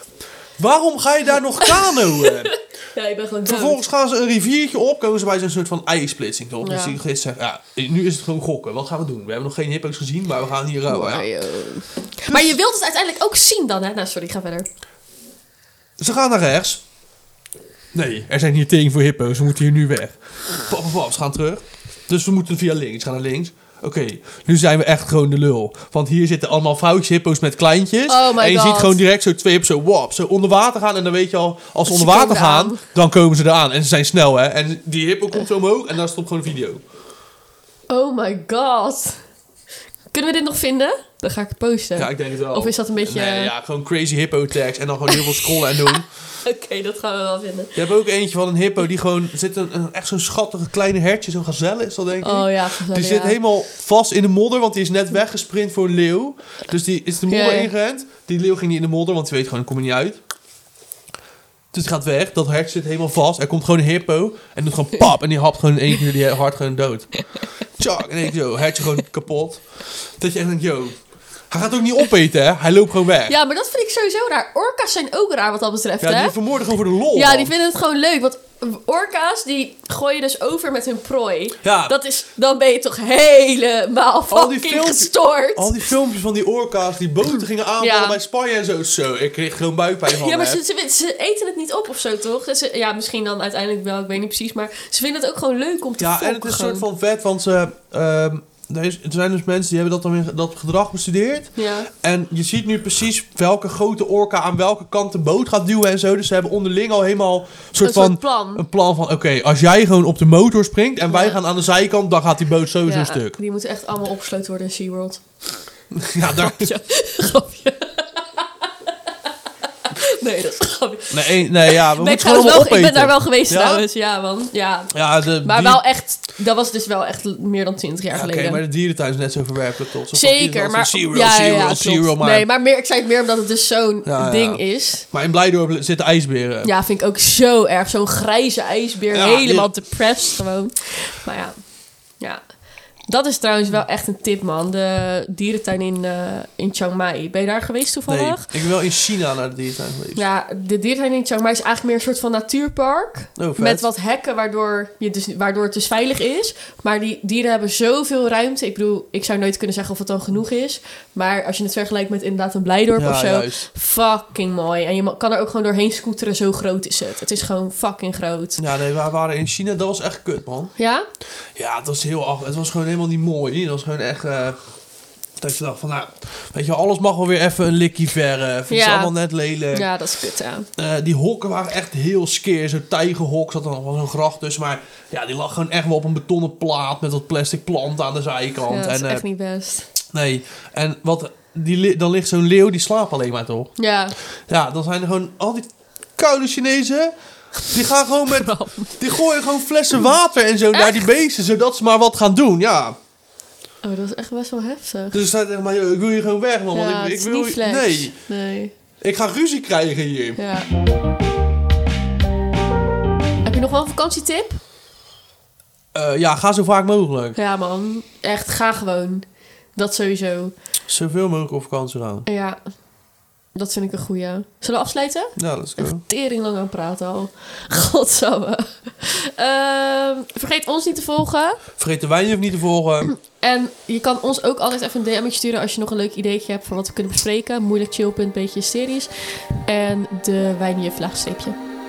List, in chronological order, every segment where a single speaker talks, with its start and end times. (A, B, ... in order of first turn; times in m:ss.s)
0:00.6-0:02.5 A
0:01.6-0:03.8 B
0:03.5-0:11.3 A
0:06.6-0:07.0 B
0:10.9-0:14.7 B
0:12.3-0:12.6 A
0:16.0-0:16.8 A
0:17.9-0:36.8 A
0:28.1-0:29.0 B
0:31.9-0:32.8 B
0:37.9-0:39.2 B
0:40.1-0:43.5 B
0:42.0-0:46.1 A
0:45.1-0:47.8 B
0:47.8-1:00.2 A
0:52.2-0:53.4 B
0:57.3-0:57.7 B
1:01.7-1:07.2 A
1:07.8-1:11.0 A
1:11.5-1:13.4 A
1:13.3-1:16.4 B
1:16.0-1:17.5 A
1:17.1-1:25.8 B
1:21.6-1:22.0 A
1:24.3-1:30.6 A
1:27.8-1:28.2 B
1:30.1-1:36.8 B
1:36.0-1:53.4 A
1:41.6-1:41.9 B
1:47.8-1:48.6 B
1:51.1-1:51.4 B
1:52.9-1:55.2 B
1:55.9-1:56.7 A
1:56.3-1:58.7 B
1:59.8-2:08.6 B
2:01.1-2:03.8 A
2:04.9-2:05.8 A
2:08.1-2:12.5 A
2:10.1-2:15.1 B
2:14.0-2:16.7 A
2:16.6-2:21.6 B
2:19.1-2:19.7 A
2:23.1-2:28.5 B
2:28.1-2:30.2 A
2:30.2-2:48.6 B
2:33.4-2:33.9 A
2:43.0-2:43.7 A
2:48.6-2:50.7 A
2:50.8-2:51.1 B
2:51.6-2:54.6 A
2:55.4-2:59.9 A
2:58.7-2:59.1 B
2:59.7-3:00.7 B
3:00.8-3:09.2 A
3:08.7-3:09.9 B
3:10.1-3:13.7 A
3:13.8-3:14.2 B
3:14.5-3:17.1 A
3:17.7-3:23.0 A
3:18.3-3:19.0 B
3:20.8-3:21.0 B
3:23.8-3:25.2 B
3:25.1-3:28.1 A
3:26.7-3:28.7 B
3:29.0-3:30.4 A
3:30.4-3:30.7 B
3:33.4-3:34.6 B
3:35.9-3:37.4 A
3:37.4-3:40.5 B
3:40.9-3:42.3 A
3:42.3-3:42.6 B
3:43.6-3:51.6 B
3:45.4-3:46.0 A
3:51.8-3:53.1 A
3:53.1-3:59.1 B
3:59.6-4:01.6 B